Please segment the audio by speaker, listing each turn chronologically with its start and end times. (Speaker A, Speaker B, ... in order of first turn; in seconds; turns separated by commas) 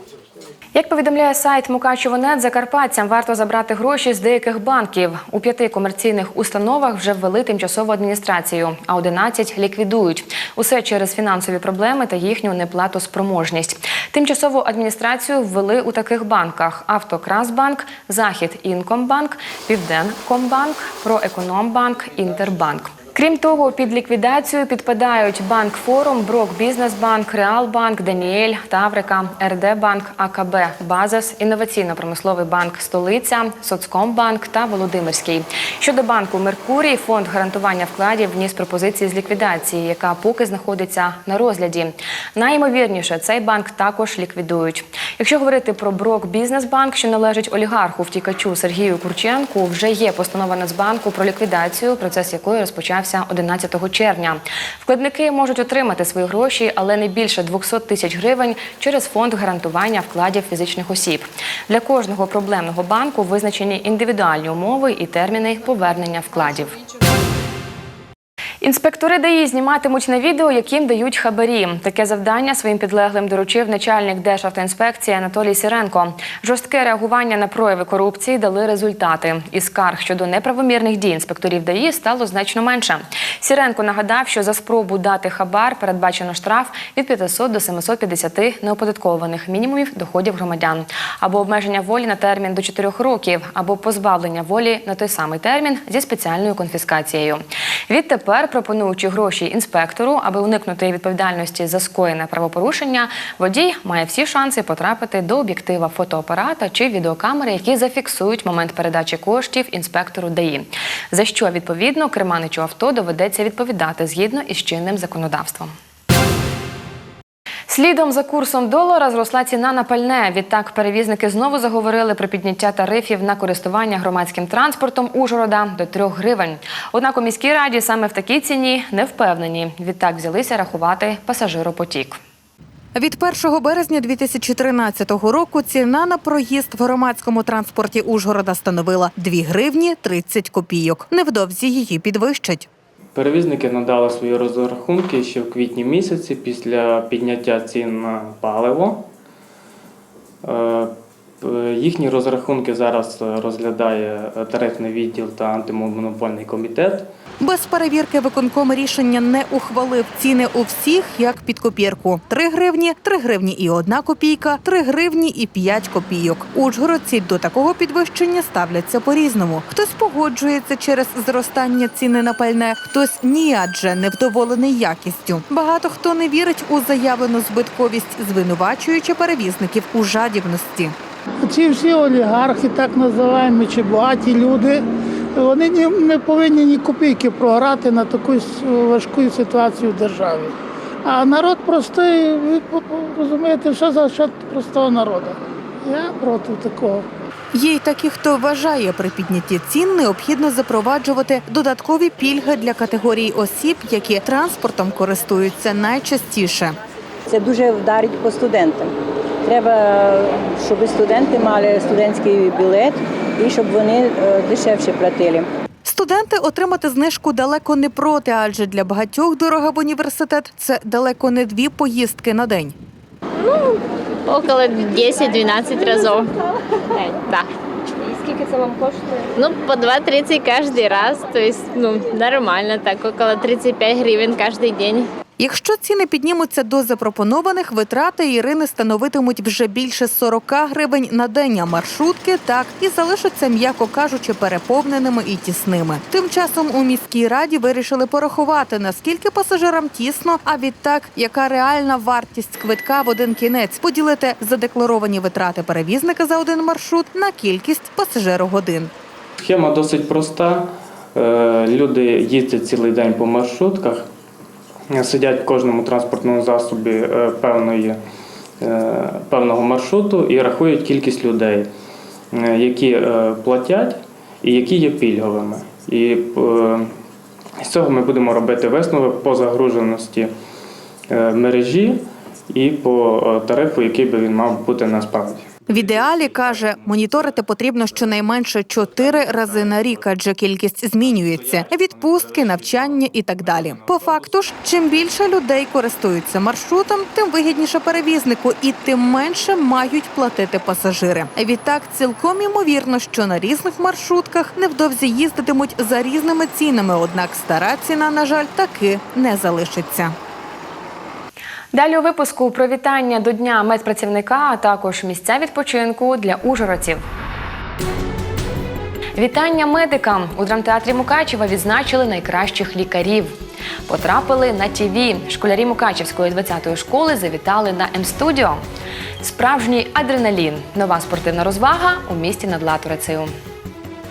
Speaker A: 0.7-66.8, Speaker A: 68.6-115.7, Speaker A: 117.7-132.2, Speaker B: 132.9-142.7, Speaker C: 143.1-149.1, Speaker C: 150.4-157.1, Speaker B: 157.4-180.9, Speaker D: 181.4-190.5, Speaker D: 191.0-197.1, Speaker B: 197.5-206.8, Speaker E: 207.3-208.9, Speaker E: 209.4-215.5, Speaker B: 215.8-222.7, Speaker F: 224.3-226.3, Speaker F: 226.9-227.5, Speaker F: 229.3-235.1, Speaker B: 235.4-258.9, Speaker C: 259.4-264.1, Speaker C: 264.9-268.0, Speaker C: 268.6-271.7, Speaker C: 272.3-276.9, Speaker C: 277.6-280.3, Speaker C: 281.1-285.4, Speaker B: 285.7-310.1, Speaker A: 311.7-317.0, Speaker A: 319.1-323.4, Speaker A: 323.9-328.6, Speaker A: 329.2-333.3